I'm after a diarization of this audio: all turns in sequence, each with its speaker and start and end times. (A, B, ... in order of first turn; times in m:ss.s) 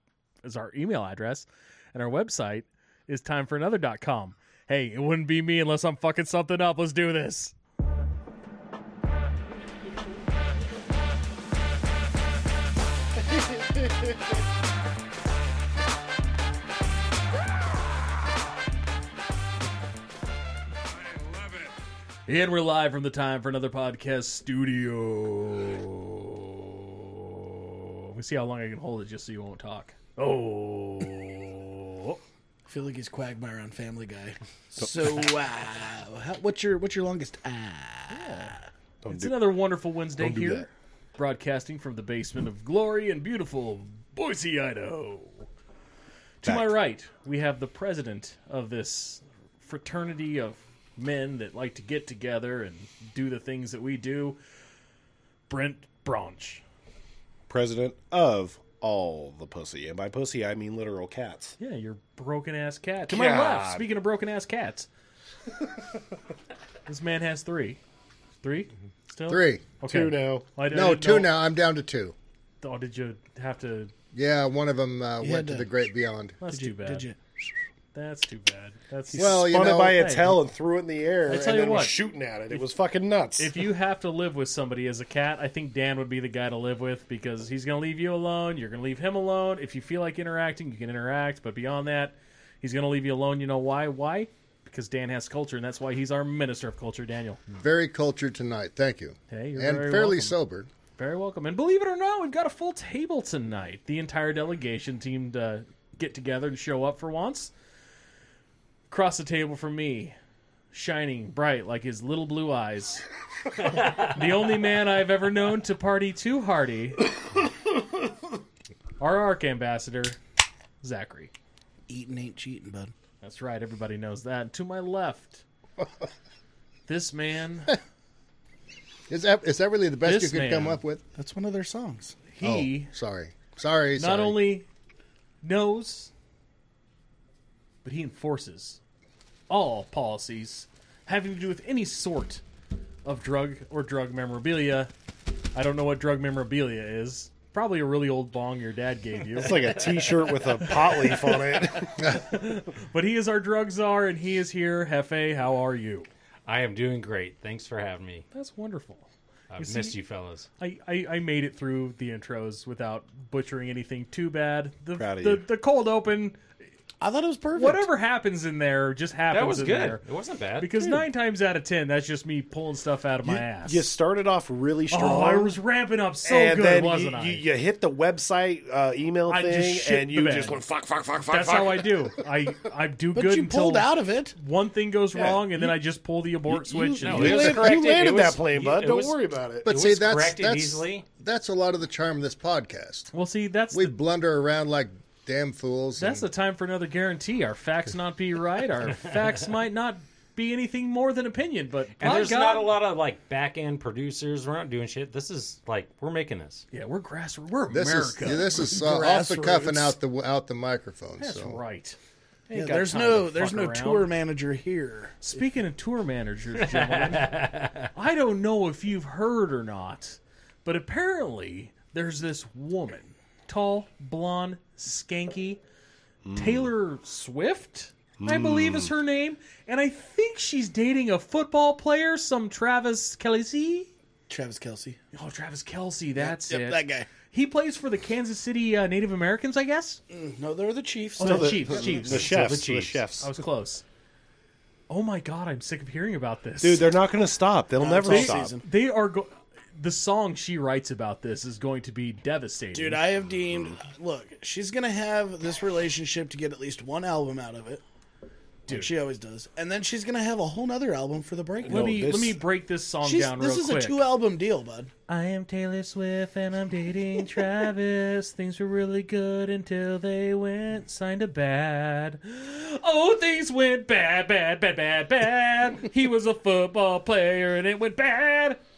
0:00.4-0:07.6 A
0:22.3-0:32.2 A
0:32.7-0:38.7 B
0:34.8-0:35.2 C
0:38.1-0:38.6 A
0:39.0-0:39.5 C
0:39.1-0:45.5 A
0:40.2-0:40.7 C
0:46.4-0:54.4 A
0:46.4-0:46.8 C
0:55.5-0:56.6 A
0:57.5-1:01.6 C
1:01.6-1:04.9 A
1:03.1-1:03.9 C
1:06.9-1:07.8 A
1:08.4-1:11.3 A
1:09.3-1:09.7 D
1:09.8-1:10.6 C
1:10.7-1:12.2 D
1:12.6-1:13.9 A
1:14.1-1:16.4 D
1:15.2-1:15.7 B
1:16.4-1:17.1 A
1:16.5-1:17.2 B
1:17.9-1:20.4 A
1:19.1-1:20.0 D
1:19.2-1:23.6 C
1:21.3-1:22.0 A
1:23.4-1:37.4 A
1:37.6-1:40.7 D
1:39.3-1:40.4 A
1:41.0-1:47.5 A
1:48.9-1:50.2 A
1:50.7-1:53.1 A
1:53.6-1:57.1 A
1:53.7-1:54.1 E
1:59.0-2:00.2 A
2:00.8-2:01.3 A
2:01.9-2:02.9 B
2:03.2-2:05.4 A
2:06.9-2:07.8 A
2:09.1-2:11.0 D
2:10.0-2:10.8 A
2:11.2-2:12.2 B
2:12.3-2:12.9 A
2:12.4-2:14.5 D
2:14.0-2:14.7 A
2:15.4-2:16.1 A
2:17.8-2:18.8 A
2:19.5-2:22.4 A
2:23.0-2:24.9 A
2:25.5-2:29.8 A
2:29.4-2:32.1 C
2:30.7-2:36.1 A
2:36.5-2:38.2 E
2:38.3-2:39.1 A
2:39.5-2:40.5 E
2:39.6-2:40.0 A
2:40.6-2:46.4 A
2:45.0-2:45.4 C
2:47.0-2:47.9 B
2:47.6-2:50.0 A
2:49.3-2:50.7 E
2:50.6-2:53.9 A
2:53.2-2:55.6 C
2:54.9-2:57.4 A
2:56.2-3:02.1 C
2:59.3-3:00.6 A
3:01.3-3:07.8 A
3:03.1-3:04.4 B
3:05.1-3:05.8 C
3:06.5-3:09.7 C
3:07.0-3:11.0 E
3:09.6-3:13.1 D
3:13.1-3:14.0 A
3:13.7-3:16.3 D
3:16.0-3:22.7 A
3:22.0-3:26.6 E
3:26.7-3:28.6 A
3:27.7-3:31.6 D
3:28.3-3:30.0 B
3:31.2-3:32.0 A
3:32.5-3:34.1 A
3:32.5-3:35.4 B
3:35.2-3:37.4 A
3:36.6-3:37.9 E
3:37.9-3:45.6 A
3:46.2-3:46.7 C
3:46.3-3:53.9 A
3:48.2-3:48.9 C
3:54.3-3:55.0 B
3:55.1-4:00.0 A
3:56.2-3:57.1 B
4:00.1-4:02.0 B
4:01.2-4:02.6 A
4:01.2-4:03.4 C
4:02.2-4:03.0 E
4:03.2-4:03.8 A
4:04.9-4:06.9 A
4:06.6-4:08.5 C
4:07.8-4:08.6 B
4:08.0-4:13.0 A
4:12.7-4:17.8 B
4:18.7-4:18.9 A
4:18.7-4:21.9 B
4:21.6-4:22.4 C
4:21.7-4:24.0 A
4:23.0-4:24.9 B
4:25.1-4:38.6 A